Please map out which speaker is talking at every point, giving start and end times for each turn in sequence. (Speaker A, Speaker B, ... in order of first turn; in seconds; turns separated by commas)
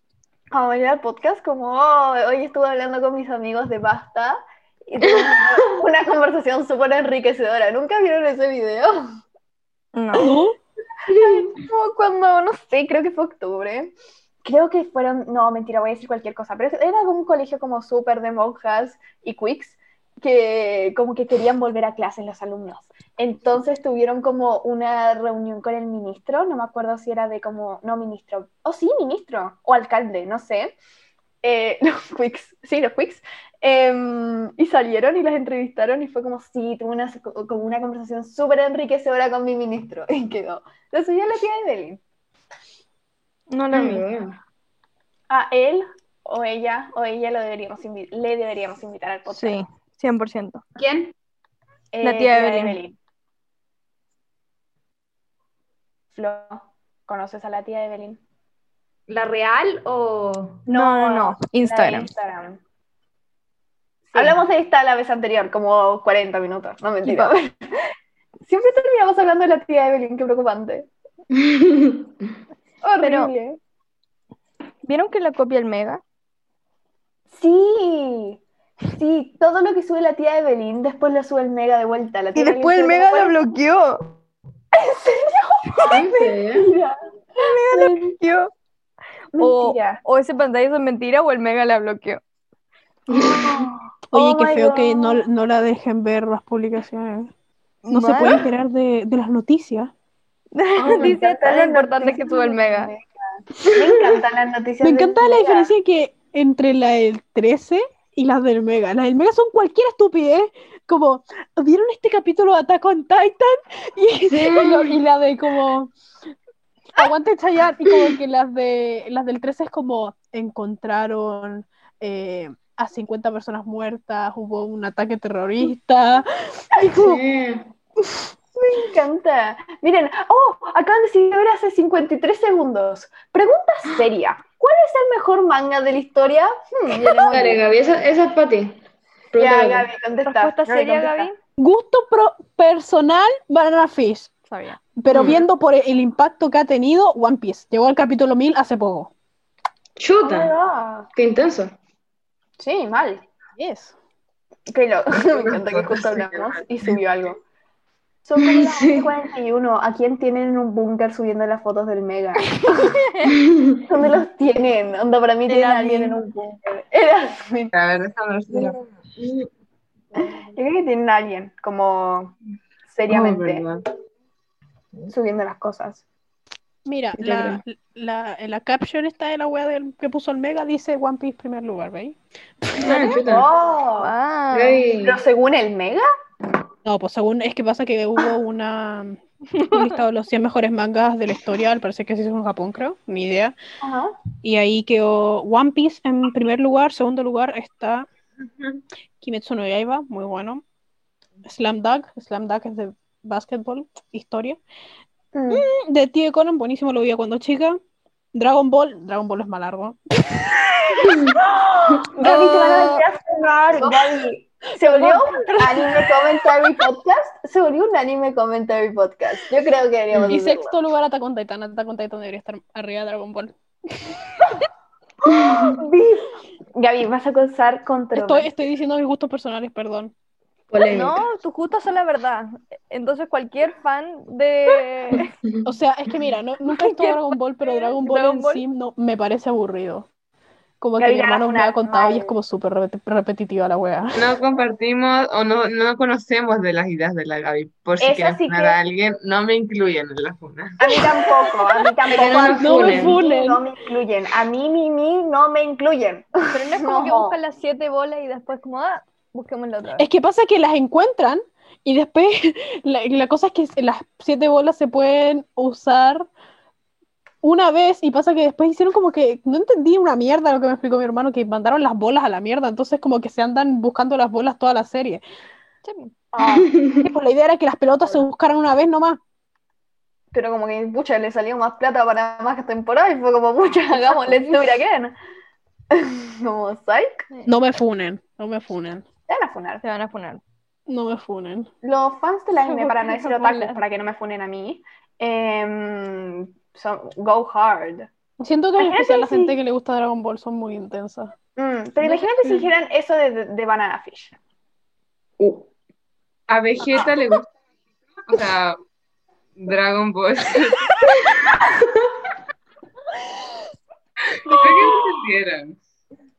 Speaker A: 0.5-9.0, Speaker B: 5.0-5.8, Speaker C: 9.9-10.3, Speaker D: 10.2-10.5, Speaker A: 11.1-13.9, Speaker B: 11.1-11.4, Speaker A: 14.4-30.8, Speaker A: 31.4-42.0, Speaker C: 43.5-44.0, Speaker B: 43.7-44.4, Speaker A: 45.3-49.6, Speaker C: 49.3-50.6, Speaker E: 50.8-51.1, Speaker A: 51.9-53.0, Speaker C: 52.0-52.8, Speaker A: 56.1-58.2, Speaker E: 59.1-60.7, Speaker C: 60.7-62.1, Speaker A: 60.7-62.6, Speaker A: 64.1-67.6, Speaker C: 67.0-67.3, Speaker A: 68.5-70.9, Speaker B: 71.3-72.2, Speaker A: 72.8-73.6, Speaker C: 73.0-73.3, Speaker C: 74.8-76.0, Speaker A: 77.3-78.4, Speaker A: 78.9-83.4, Speaker C: 82.3-84.0, Speaker A: 84.7-87.0, Speaker B: 85.8-86.7, Speaker C: 87.4-88.5, Speaker A: 87.5-88.0, Speaker A: 89.3-90.0, Speaker C: 89.4-92.2, Speaker B: 93.1-93.7, Speaker A: 93.1-95.2, Speaker D: 94.1-97.3, Speaker C: 97.8-98.5, Speaker D: 97.9-99.9, Speaker C: 100.5-102.9, Speaker A: 100.8-103.1, Speaker B: 100.9-101.1, Speaker A: 103.7-105.7, Speaker D: 104.8-115.9, Speaker B: 114.3-115.0, Speaker D: 117.0-127.2, Speaker B: 126.9-127.7, Speaker A: 128.6-137.6, Speaker B: 137.3-138.8, Speaker B: 139.3-139.9, Speaker A: 139.4-141.3, Speaker C: 140.2-141.4, Speaker D: 141.6-144.3, Speaker C: 144.5-144.8, Speaker D: 145.0-149.1, Speaker B: 145.1-145.4, Speaker B: 150.0-150.5, Speaker A: 150.2-151.1, Speaker B: 151.2-151.8, Speaker A: 152.6-153.2, Speaker D: 153.6-153.9, Speaker A: 154.7-157.4, Speaker F: 155.2-156.6, Speaker A: 158.2-162.9, Speaker B: 158.4-159.1, Speaker C: 162.8-163.3, Speaker B: 163.3-163.8, Speaker A: 163.9-167.7, Speaker C: 165.5-166.2, Speaker F: 167.7-168.8, Speaker A: 170.2-172.3, Speaker A: 172.9-173.7, Speaker F: 173.1-173.8, Speaker A: 175.1-176.0, Speaker D: 176.9-183.2, Speaker B: 177.2-177.6, Speaker B: 182.8-183.5, Speaker A: 183.0-184.1, Speaker C: 184.0-184.8, Speaker B: 184.5-185.2, Speaker A: 185.0-186.1, Speaker D: 186.8-193.6, Speaker C: 189.6-190.0, Speaker A: 193.8-194.2, Speaker D: 194.4-198.1, Speaker D: 199.2-200.6, Speaker D: 201.4-204.6, Speaker A: 205.3-205.7, Speaker D: 205.5-207.8, Speaker D: 208.3-210.6, Speaker A: 211.7-220.8, Speaker C: 212.2-213.1, Speaker D: 214.8-216.0, Speaker D: 220.2-224.2, Speaker A: 225.3-228.5, Speaker B: 225.3-225.8, Speaker D: 228.1-230.1, Speaker B: 230.7-231.2, Speaker C: 230.9-235.3, Speaker D: 235.6-240.1, Speaker C: 236.7-238.6, Speaker D: 240.8-244.3, Speaker A: 241.0-242.3, Speaker F: 244.2-250.9, Speaker A: 248.0-248.8, Speaker A: 250.8-257.4, Speaker B: 252.1-253.2, Speaker D: 252.5-253.6, Speaker C: 256.5-260.0, Speaker D: 260.0-266.3, Speaker D: 267.4-275.2, Speaker C: 275.9-276.1, Speaker A: 276.3-276.8, Speaker B: 276.4-277.0, Speaker D: 276.9-279.2, Speaker A: 280.3-285.1, Speaker A: 285.9-287.3, Speaker D: 287.4-289.1, Speaker A: 289.3-289.8, Speaker C: 289.8-290.4, Speaker D: 290.9-291.7, Speaker A: 291.8-298.1, Speaker C: 292.6-293.8, Speaker D: 298.4-301.3, Speaker A: 298.8-299.6, Speaker A: 301.6-304.3, Speaker F: 306.5-307.5, Speaker F: 308.3-308.8, Speaker F: 309.6-310.9, Speaker F: 314.5-315.8